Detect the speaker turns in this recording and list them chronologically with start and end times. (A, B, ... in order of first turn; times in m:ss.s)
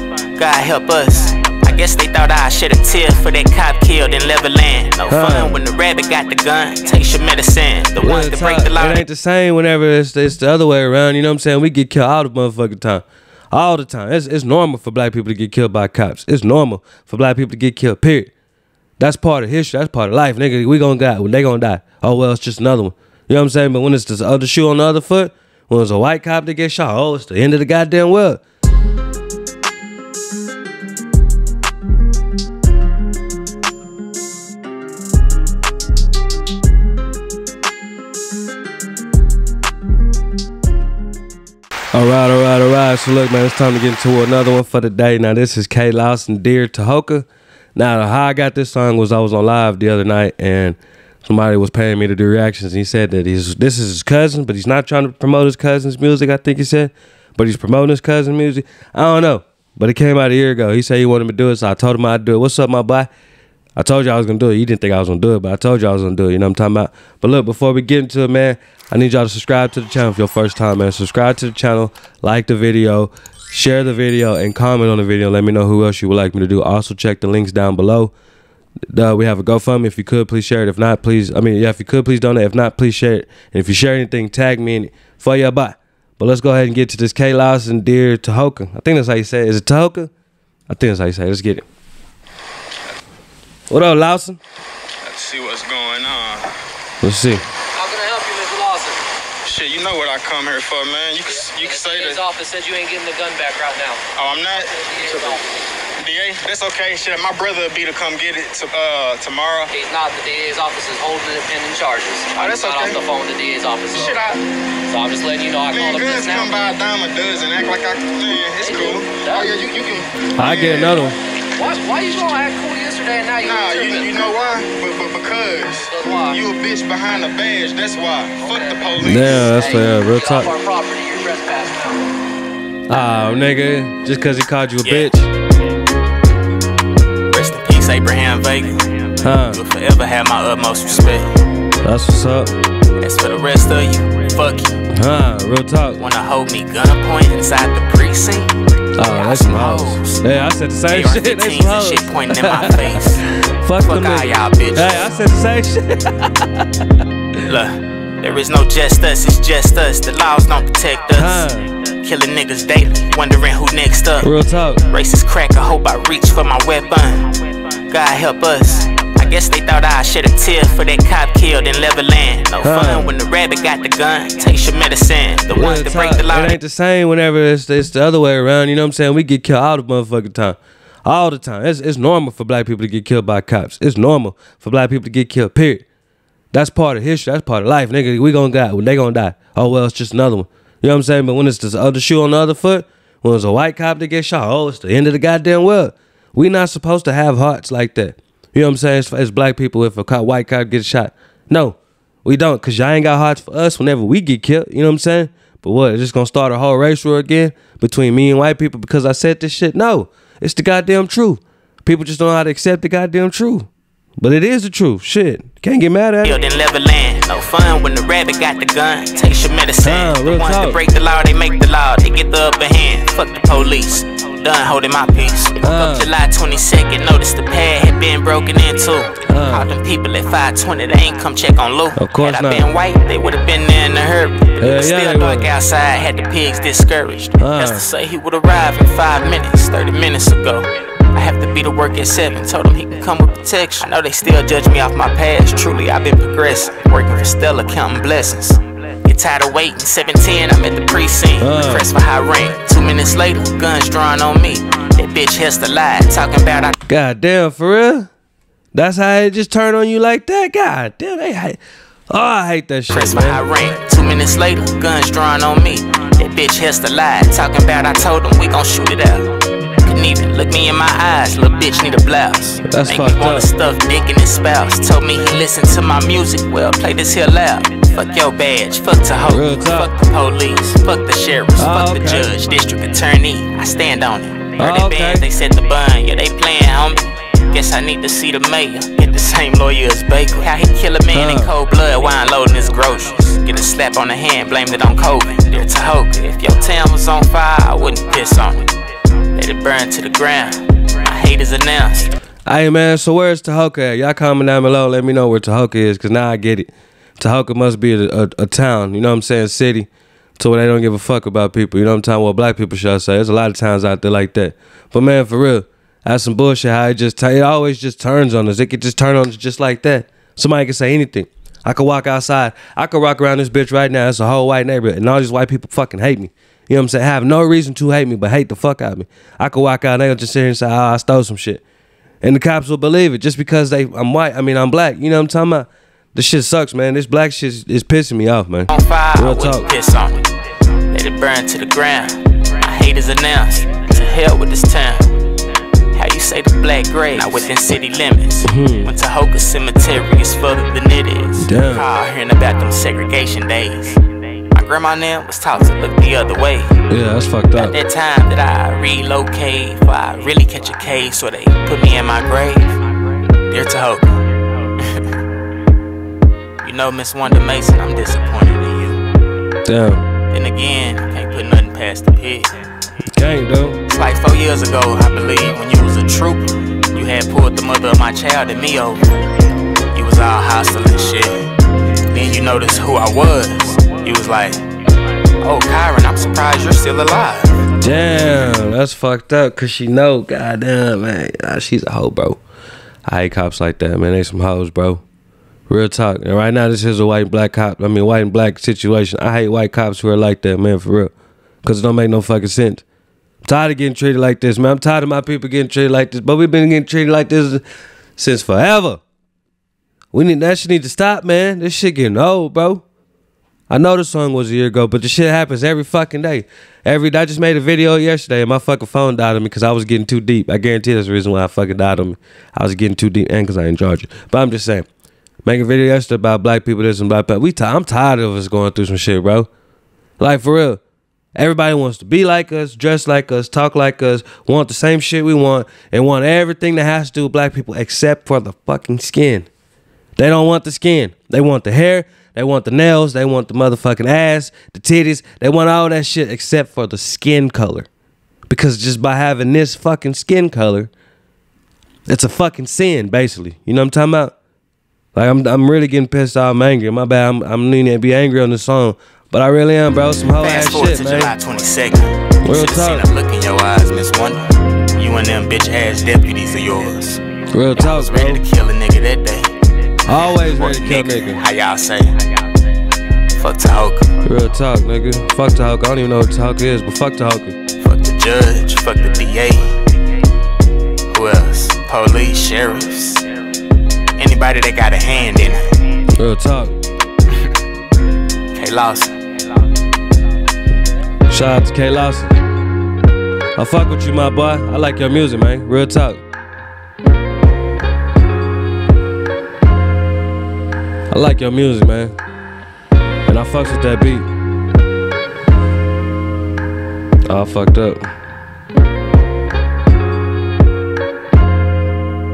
0:00.3-0:09.0 A
0:05.1-0:05.6 B
0:08.0-0:18.3 B
0:19.0-0:28.4 B
0:41.9-1:03.1 B
1:03.8-1:18.1 B
1:18.9-1:30.1 B
1:30.7-1:31.6 B
1:33.7-1:34.4 B
1:35.0-1:36.5 C
1:37.0-1:37.4 B
1:37.7-1:39.0 D
1:39.4-1:42.2 C
1:41.3-1:45.5 D
1:44.1-1:45.4 C
1:46.0-1:49.7 C
1:49.7-1:54.3 D
1:52.3-1:53.0 C
1:53.9-1:54.4 C
1:54.9-1:56.6 D
1:55.7-2:01.1 C
1:58.6-1:59.6 D
2:00.4-2:01.2 B
2:01.6-2:04.2 D
2:03.4-2:09.5 C
2:05.8-2:06.4 D
2:08.4-2:12.1 D
2:09.0-2:10.5 B
2:12.9-2:15.3 B
2:14.8-2:15.1 A
2:17.3-2:18.9 A
2:19.2-2:19.6 B
2:19.4-2:21.3 A
2:21.8-2:22.5 B
2:23.0-2:24.8 A
2:24.9-2:26.0 B
2:26.0-2:30.2 A
2:29.0-2:36.9 B
2:30.9-2:33.2 A
2:33.8-2:35.1 A
2:37.4-2:44.3 A
2:41.1-2:41.7 B
2:44.2-2:44.8 B
2:44.9-2:47.4 A
2:47.9-2:56.6 A
2:52.6-2:53.1 B
2:55.5-3:05.8 B
3:06.5-3:36.4 B
3:36.2-4:16.8 A
3:39.8-3:40.8 B
3:45.6-3:46.1 B
3:49.3-3:49.7 B
3:52.0-3:52.7 B
3:54.6-3:55.5 B
3:57.4-3:57.9 B
4:11.4-4:11.9 B
4:16.9-4:18.1 B
4:18.7-4:21.6 B
4:22.1-4:23.4 B
4:22.9-4:29.3 A
4:29.8-4:58.7 A
4:32.6-4:33.5 B
4:39.2-4:39.9 B
4:41.6-4:42.4 B
4:44.6-4:45.2 B
4:51.1-4:51.5 B
4:59.3-5:02.1 A
5:02.4-5:31.6 B
5:32.2-5:39.7 B
5:38.7-5:40.3 A
5:40.9-5:45.1 A
5:45.9-5:54.0 A
5:48.4-5:48.9 B
5:51.4-5:51.9 B
5:54.5-5:56.8 A
5:56.9-5:57.7 B
5:57.6-6:02.8 A
6:03.5-6:04.2 A
6:04.8-6:05.0 A
6:06.6-6:09.0 A
6:09.6-6:10.1 B
6:10.3-6:12.6 A
6:13.1-6:13.8 B
6:13.9-6:19.2 A
6:19.9-6:21.5 A
6:22.1-6:24.6 A
6:25.4-6:27.7 A
6:27.8-6:32.4 B
6:33.1-6:35.0 B
6:35.7-6:41.1 B
6:41.6-6:42.8 B
6:43.4-6:47.6 B
6:48.2-6:49.0 B
6:50.1-6:52.8 B
6:53.7-7:04.9 B
7:05.4-7:09.5 B
7:10.2-7:10.8 B
7:11.4-7:19.5 B
7:20.2-7:27.9 B
7:28.5-7:30.9 B
7:32.1-7:34.3 B
7:35.1-7:41.3 B
7:40.4-7:47.2 A
7:42.4-7:43.1 B
7:47.5-7:48.4 B
7:47.7-7:49.5 A
7:50.0-7:51.4 B
7:50.1-7:52.2 A
7:53.3-7:54.1 A
7:54.2-7:57.6 B
7:57.8-7:59.8 A
8:01.1-8:03.3 A
8:04.2-8:05.7 A
8:06.2-8:06.7 B
8:08.5-8:09.2 A
8:11.3-8:12.4 B
8:13.6-8:16.2 B
8:21.1-8:22.1 B
8:23.3-8:24.3 B
8:27.3-8:28.0 B